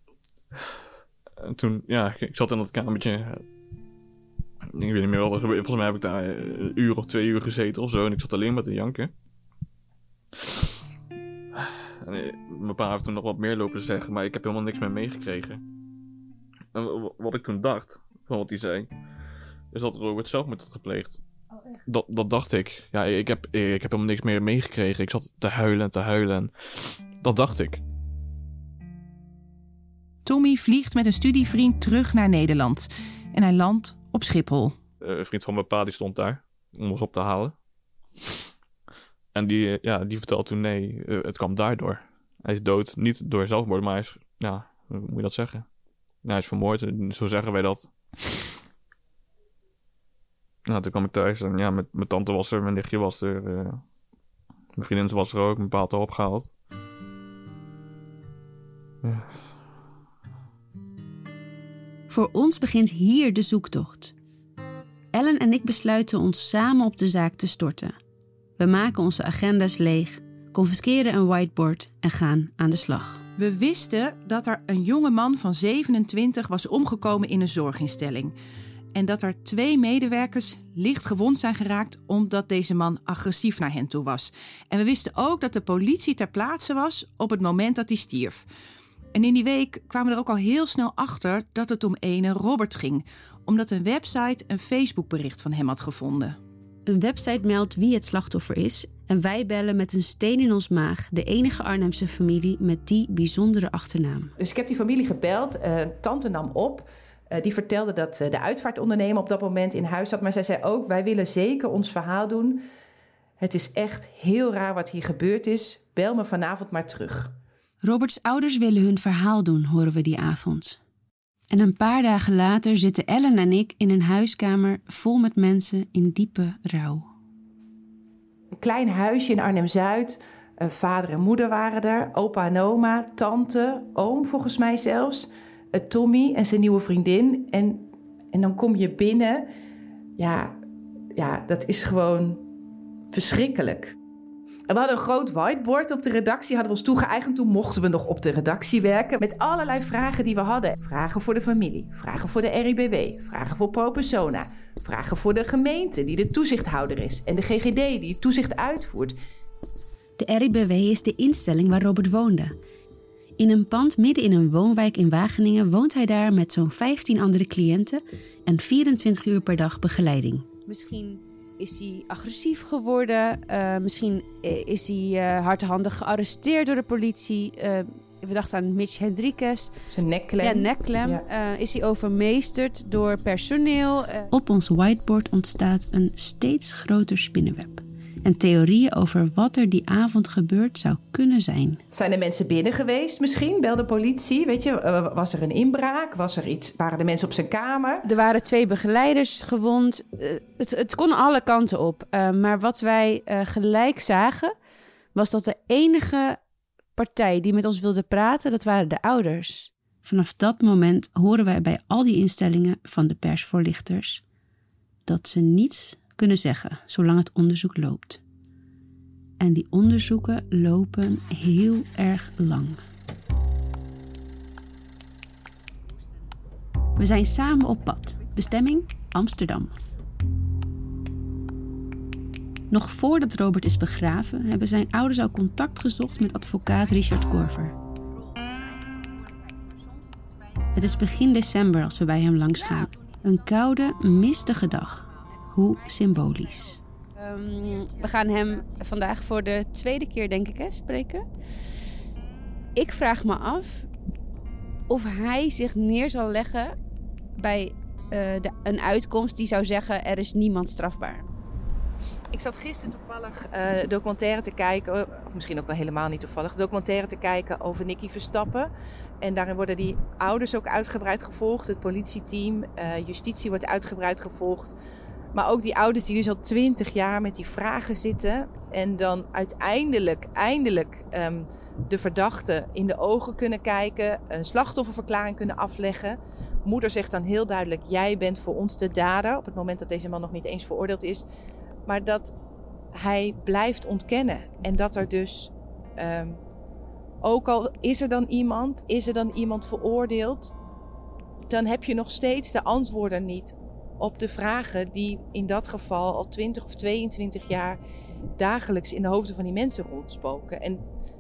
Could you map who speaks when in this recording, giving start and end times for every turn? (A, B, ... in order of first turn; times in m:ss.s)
0:01.4-0:03.4 A
0:04.7-0:09.1 A
0:11.6-0:15.6 A
0:16.7-0:18.9 A
0:19.7-0:21.2 A
0:21.9-0:27.8 A
0:30.2-0:34.8 B
0:35.0-0:37.6 A
0:39.3-0:45.7 A
0:46.2-0:48.3 A
0:50.7-0:53.8 A
0:54.8-0:56.5 A
0:59.0-0:59.5 A
1:02.1-1:04.2 C
1:05.1-1:08.0 C
1:08.6-1:13.2 C
1:13.4-1:18.4 B
1:19.0-1:28.5 B
1:29.1-1:36.4 B
1:36.9-1:44.3 C
1:44.4-1:52.6 B
1:53.4-1:57.3 B
1:57.8-2:00.8 C
2:01.5-2:07.1 C
2:08.6-2:19.5 B
2:20.2-2:20.6 B
2:21.2-2:22.4 B
2:23.1-2:24.0 B
2:24.7-2:39.2 B
2:40.2-2:42.5 C
2:43.4-2:50.5 C
2:50.7-2:59.7 D
2:59.9-3:01.2 B
3:00.4-3:04.3 D
3:04.3-3:11.8 C
3:11.9-3:18.0 B
3:18.0-3:24.5 D
3:25.2-3:26.4 D
3:27.0-3:29.7 D
3:30.0-3:34.2 C
3:35.1-3:38.2 C
3:39.4-3:42.8 C
3:47.0-3:49.7 C
3:52.7-3:57.8 C
4:00.7-4:06.8 C
4:02.6-4:02.9 D
4:07.2-4:11.3 D
4:12.8-4:13.9 D
4:14.9-4:16.8 D
4:17.4-4:21.3 D
4:22.3-4:28.7 B
4:29.2-4:34.8 B
4:35.3-4:51.2 B
4:51.9-4:52.3 B
4:52.9-4:56.4 B
4:57.2-5:00.5 B
5:01.5-5:07.8 B
5:08.4-5:10.8 B